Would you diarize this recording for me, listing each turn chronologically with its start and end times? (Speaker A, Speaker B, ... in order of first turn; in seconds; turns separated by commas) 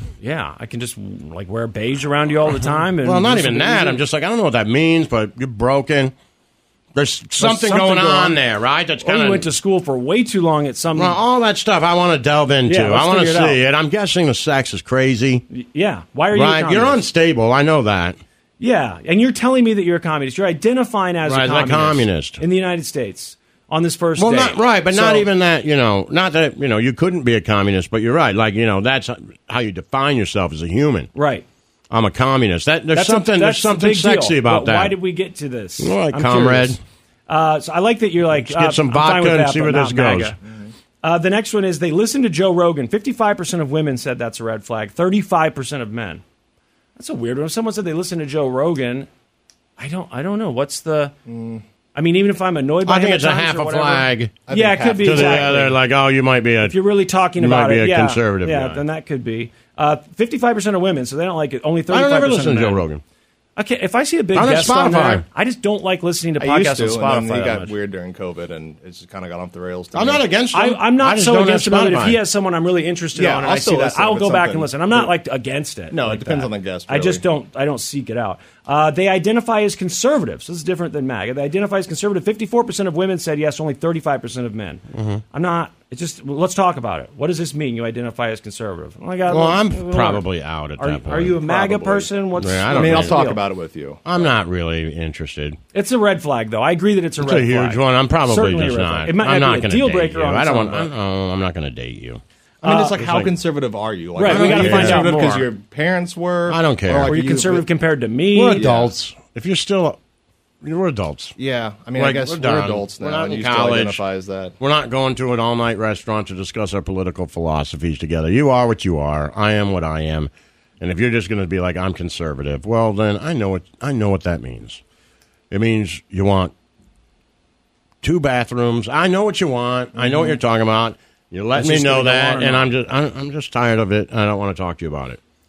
Speaker A: 0.2-4.0, Speaker B: 2.6-6.1, Speaker B: 6.9-9.5, Speaker A: 7.4-8.4, Speaker A: 9.0-11.2, Speaker B: 11.0-15.4, Speaker A: 12.7-13.6, Speaker A: 15.5-17.0, Speaker B: 16.3-18.2, Speaker A: 18.6-25.3, Speaker B: 21.2-22.4, Speaker B: 24.2-31.1, Speaker A: 31.1-31.4, Speaker B: 31.9-35.0, Speaker A: 32.9-36.8, Speaker B: 35.8-36.8, Speaker A: 37.3-40.4, Speaker B: 38.4-40.4, Speaker A: 41.0-46.2, Speaker A: 47.0-49.1, Speaker A: 49.8-51.1, Speaker C: 51.3-51.6, Speaker A: 52.0-55.8, Speaker B: 52.9-54.4, Speaker C: 54.5-55.6, Speaker B: 55.0-56.8, Speaker A: 56.7-62.8, Speaker B: 57.4-58.8, Speaker B: 61.9-63.0, Speaker A: 63.6-67.7, Speaker B: 64.3-65.2, Speaker C: 66.4-70.2, Speaker B: 69.9-72.2, Speaker A: 70.5-90.3, Speaker C: 73.2-75.1, Speaker C: 75.9-77.2, Speaker B: 84.9-85.2, Speaker B: 89.3-93.2, Speaker A: 90.8-93.4, Speaker C: 92.7-94.3, Speaker B: 94.0-95.6, Speaker A: 95.7-100.9, Speaker B: 97.2-102.2, Speaker C: 102.6-107.7, Speaker A: 102.6-103.0, Speaker B: 102.9-103.3, Speaker A: 104.2-105.5, Speaker B: 104.2-105.4, Speaker B: 106.5-107.1, Speaker A: 107.1-108.7, Speaker B: 108.3-110.0, Speaker C: 108.5-108.9, Speaker B: 110.6-111.4, Speaker C: 111.4-114.6, Speaker B: 112.0-114.0, Speaker B: 114.6-124.8, Speaker B: 125.5-126.5, Speaker B: 128.0-135.2, Speaker A: 130.0-130.3, Speaker A: 131.5-132.7